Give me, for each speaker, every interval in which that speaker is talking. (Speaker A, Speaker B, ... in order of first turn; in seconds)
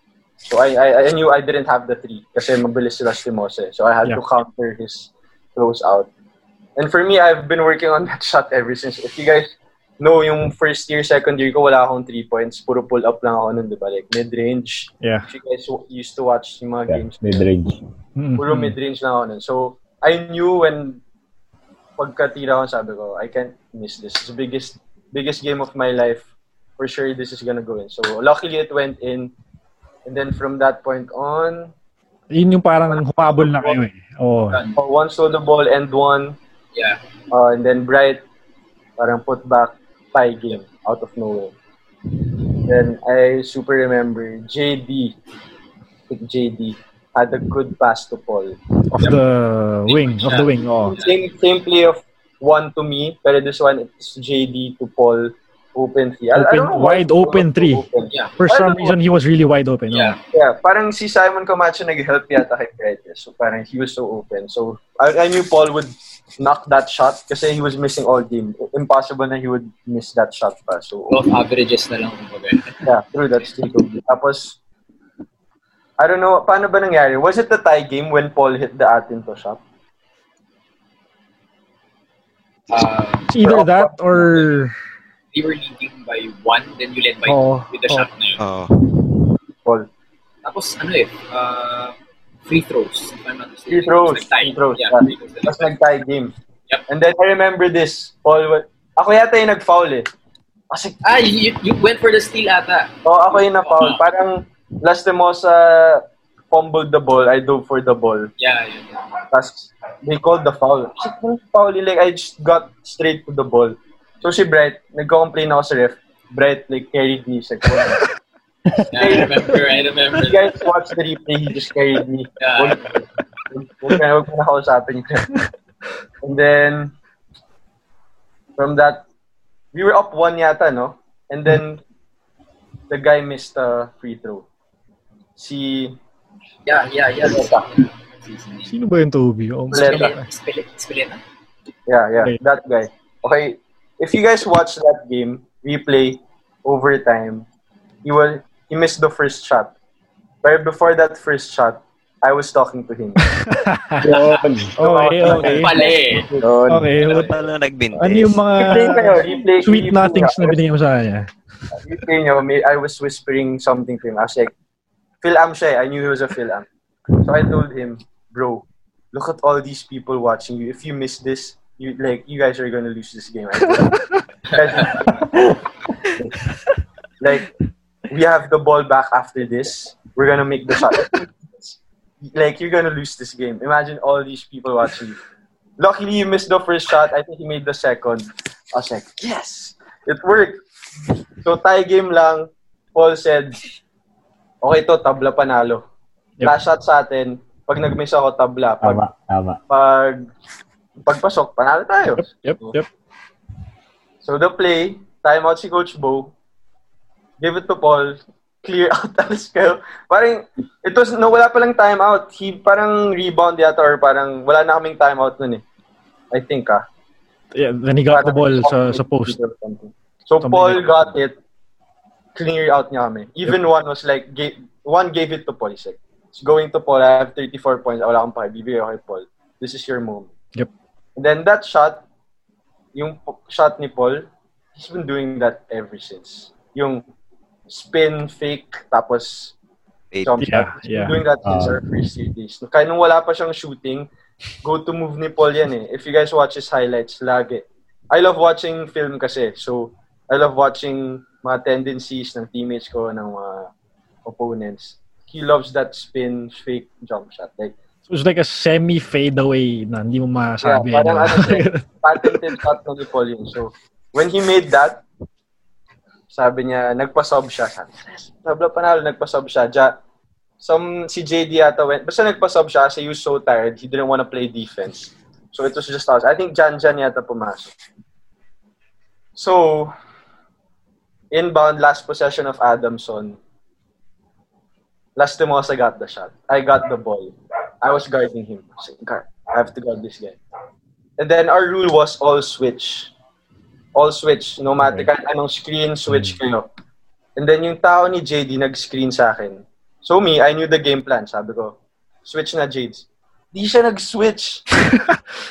Speaker A: 0.4-6.1, 6.8-17.5, 18.4-21.0, 22.0-26.2, 26.8-29.3, 30.1-31.7, 32.9-33.8, 34.8-36.4, 37.3-38.2, 39.0-41.5, 42.6-45.2, 46.1-48.6, 50.9-59.0, 60.3-71.2, 72.8-74.6, 76.0-79.6, 83.4-84.5, 93.7-96.3, 96.9-100.1, 100.7-101.0, 103.0-108.3, 109.3-118.0, 118.9-119.5, 120.2-125.3, 126.2-126.9, 128.6-129.1, 129.7-131.8, 132.9-134.5, 135.4-136.0, 137.2-137.6, 139.7-140.1, 141.9-147.5, 148.0-149.8, 150.4-153.2, 154.7-156.9, 158.6-160.6, 161.8-164.5, 165.2-166.7, 167.2-174.0, 174.5-175.1, 177.2-177.5, 178.1-181.7, 182.2-185.2, 185.8-190.6, 191.4-193.6, 194.6-195.8, 196.4-199.0, 199.7-200.3, 201.1-202.8, 204.2-206.3, 207.4-215.6, 216.3-216.8, 218.1-221.4, 222.3-230.3, 231.2-232.0, 232.9-237.0, 237.7-239.6, 240.2-244.1, 244.6-253.7, 254.3-257.7, 260.6-265.0, 266.3-270.0, 270.6-277.7, 279.4-279.9, 281.3-283.4, 285.2-290.4, 291.2-293.1, 293.9-296.7, 297.4-304.6
Speaker B: 15.0-15.3, 18.2-18.8, 32.3-34.6, 48.9-51.0, 56.4-57.9, 58.4-60.2, 83.3-84.7, 87.3-88.1, 138.7-140.2, 153.4-155.8, 156.7-157.4, 157.9-161.3, 202.2-202.9, 217.5-219.4, 220.4-220.9, 240.4-241.2, 258.1-262.6
Speaker C: 16.9-17.8, 154.1-154.7, 156.4-156.8, 198.8-199.6, 241.4-241.8
Speaker D: 34.5-34.8, 36.8-37.0, 49.9-51.2, 58.1-58.4, 59.9-60.2, 71.1-72.8, 82.7-83.3, 85.3-88.4, 90.4-95.7, 101.0-104.0, 108.4-109.1, 118.8-120.4, 122.4-122.8, 136.7-138.8, 139.7-141.2, 154.0-154.7, 155.3-156.3, 157.0-157.4, 174.5-175.1
Speaker E: 88.4-88.9, 157.0-158.4